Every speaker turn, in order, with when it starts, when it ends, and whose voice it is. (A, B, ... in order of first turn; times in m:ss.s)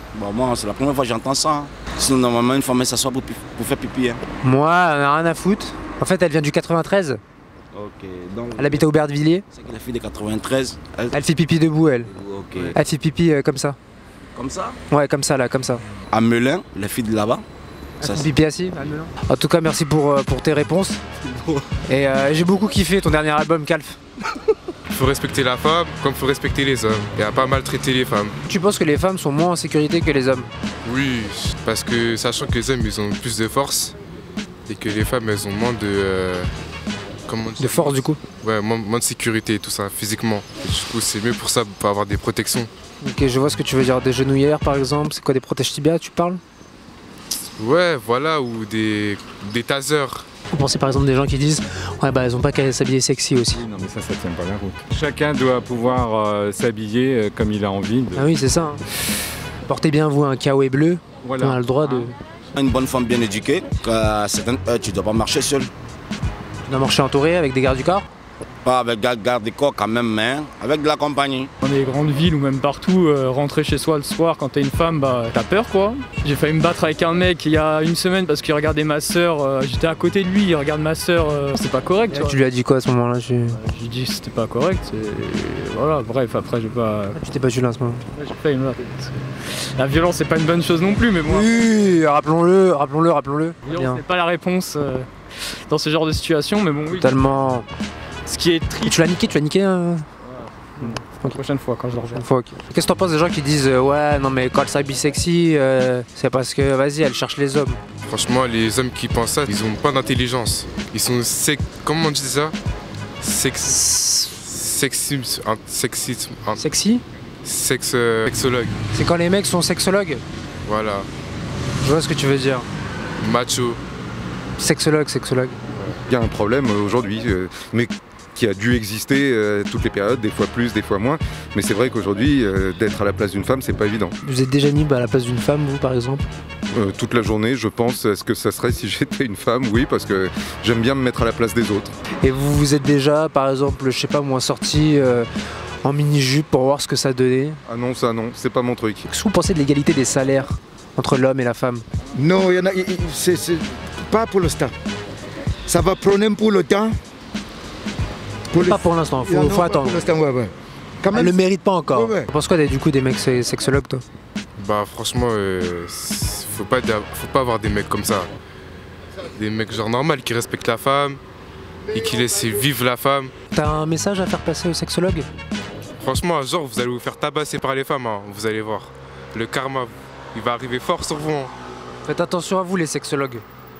0:00.1-0:04.2 A
0:04.4-0:07.2 B
0:07.7-0:08.8 A
0:08.6-0:09.4 B
0:09.5-0:11.2 A
0:11.1-0:12.1 B
0:12.1-0:12.8 A
0:12.7-0:13.8 B
0:14.4-0:14.8 A
0:14.9-0:15.8 B
0:16.1-0:17.4 A
0:18.0-0:21.0 B
0:18.0-0:18.3 A
0:21.2-0:21.7 A
0:21.9-0:24.0 B
0:24.9-0:28.3 C
0:28.5-0:30.5 B
0:30.8-0:34.0 C
0:34.7-0:36.5 C
0:37.3-0:42.7 C
0:37.6-0:38.2 B
0:43.0-0:46.4 B
0:47.6-0:50.3 C
0:50.5-0:53.6 B
0:53.5-0:58.3 D
0:58.1-0:58.8 B
0:59.7-1:02.2 B
1:01.2-1:02.1 D
1:02.6-1:05.7 A
1:06.6-1:08.1 B
1:08.6-1:11.5 A
1:11.6-1:22.4 E
1:22.1-1:23.6 B
1:23.5-1:27.2 E
1:27.2-1:28.0 B
1:28.1-1:31.6 E
1:31.2-1:34.0 B
1:33.7-1:35.1 E
1:35.7-1:37.3 E
1:36.9-1:37.7 B
1:38.3-1:39.0 E
1:38.8-1:40.0 B
1:40.8-1:42.2 E
1:41.0-1:41.4 B
1:42.1-1:47.8 B
1:48.1-1:52.6 C
1:53.2-1:56.6 C
1:53.7-1:54.3 B
1:56.6-1:57.0 B
1:57.4-1:58.8 C
1:58.9-2:00.2 B
2:00.7-2:01.1 C
2:01.8-2:02.7 B
2:03.2-2:03.8 C
2:04.6-2:05.6 B
2:06.0-2:14.2 F
2:14.2-2:16.2 B
2:16.7-2:21.9 F
2:22.2-2:25.3 B
2:25.8-2:27.6 B
2:27.7-2:29.1 F
2:29.1-2:31.8 B
2:32.2-2:34.7 G
2:35.7-2:37.0 G
2:38.5-2:40.5 G
2:38.6-2:40.1 B
2:41.0-2:41.3 G
2:41.1-2:44.0 B
2:42.0-2:42.3 G
2:44.6-2:48.3 C
2:49.3-2:51.2 C
2:51.9-2:53.3 C
2:53.5-2:55.3 B
2:56.0-3:01.5 C
3:02.1-3:03.4 B